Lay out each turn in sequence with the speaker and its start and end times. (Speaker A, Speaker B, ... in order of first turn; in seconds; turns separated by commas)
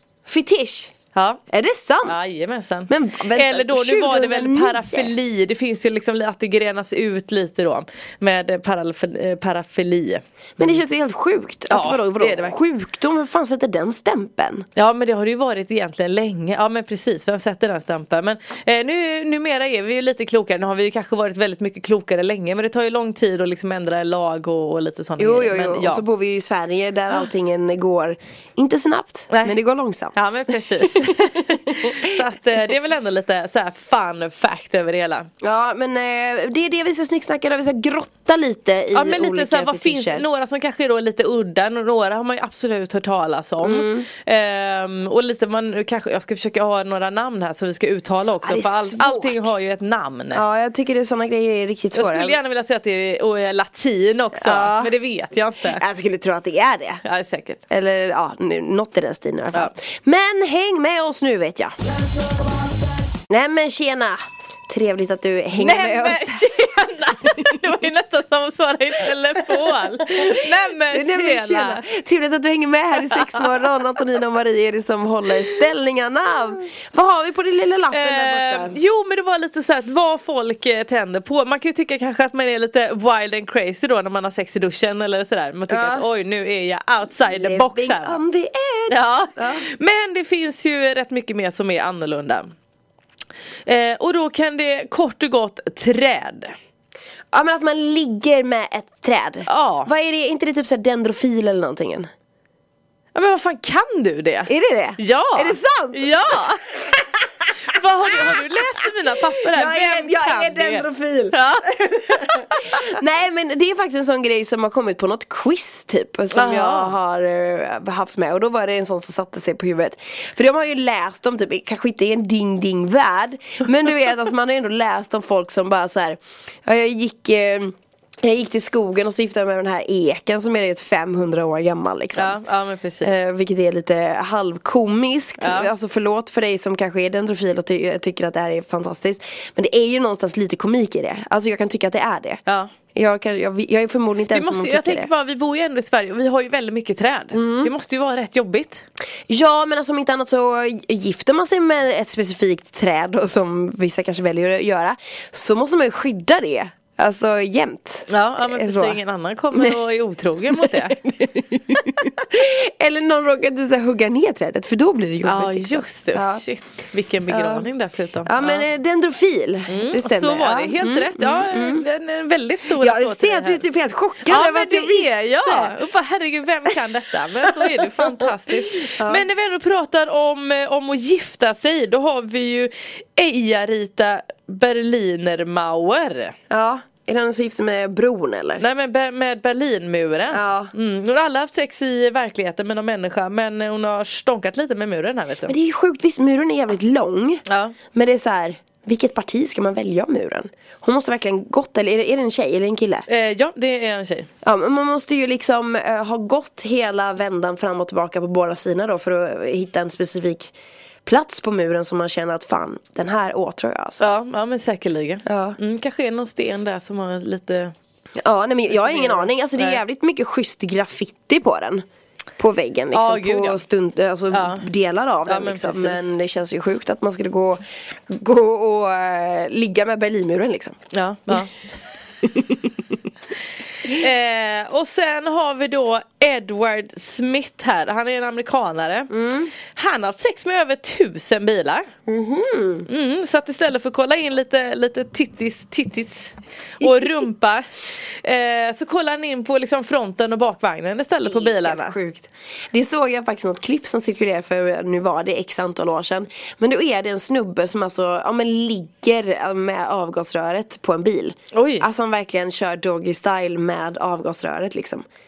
Speaker A: 0.2-0.9, Speaker B: 1.1-1.4, Speaker A: 1.5-2.1, Speaker B: 2.0-10.8, Speaker A: 2.9-5.1, Speaker A: 10.6-14.7, Speaker B: 11.7-12.6, Speaker B: 14.8-26.0, Speaker A: 25.2-30.1, Speaker B: 29.3-29.6, Speaker B: 30.1-35.3, Speaker A: 30.8-32.0, Speaker A: 35.4-40.2, Speaker B: 38.9-50.4, Speaker A: 43.6-44.1, Speaker A: 48.4-49.5, Speaker A: 50.3-52.4, Speaker B: 51.9-55.8, Speaker A: 54.3-54.9, Speaker A: 55.6-57.0, Speaker B: 57.0-57.6, Speaker A: 57.7-61.7, Speaker A: 63.3-66.5, Speaker B: 65.6-71.8, Speaker A: 69.4-78.8, Speaker B: 73.0-73.6, Speaker B: 77.9-88.2, Speaker A: 85.7-86.0, Speaker A: 87.2-89.7, Speaker B: 88.9-92.5, Speaker B: 93.7-96.5, Speaker A: 97.3-102.1, Speaker B: 99.5-99.9, Speaker B: 103.1-106.7, Speaker A: 104.5-107.4, Speaker B: 107.6-112.8, Speaker A: 109.4-132.4, Speaker B: 116.3-116.9, Speaker B: 132.1-133.1, Speaker A: 133.0-142.4, Speaker B: 135.4-135.7, Speaker B: 142.4-142.7, Speaker A: 142.9-145.1, Speaker B: 144.3-148.8, Speaker A: 147.3-147.7, Speaker A: 149.3-159.0, Speaker B: 158.1-161.0, Speaker A: 160.5-166.4, Speaker B: 165.2-168.7, Speaker A: 167.3-167.7, Speaker A: 168.2-171.8, Speaker B: 169.7-173.6, Speaker A: 172.7-175.7, Speaker B: 174.2-186.3, Speaker A: 177.5-178.3, Speaker A: 178.8-179.3, Speaker A: 186.5-188.6, Speaker B: 188.6-195.5, Speaker A: 190.3-190.7, Speaker A: 195.5-203.1, Speaker B: 197.4-197.8, Speaker B: 203.1-204.3, Speaker A: 204.4-210.5, Speaker A: 211.0-214.1, Speaker B: 214.0-217.7, Speaker A: 215.2-215.6, Speaker A: 218.2-221.8, Speaker B: 218.7-219.8, Speaker A: 222.4-230.8, Speaker B: 222.9-223.6, Speaker B: 224.3-224.7, Speaker B: 225.2-226.1, Speaker B: 230.9-231.5, Speaker A: 232.2-232.6, Speaker B: 233.8-241.9, Speaker A: 239.1-239.5, Speaker A: 242.1-242.9, Speaker B: 242.9-251.9, Speaker A: 246.8-247.1, Speaker A: 251.2-265.0, Speaker B: 261.5-261.9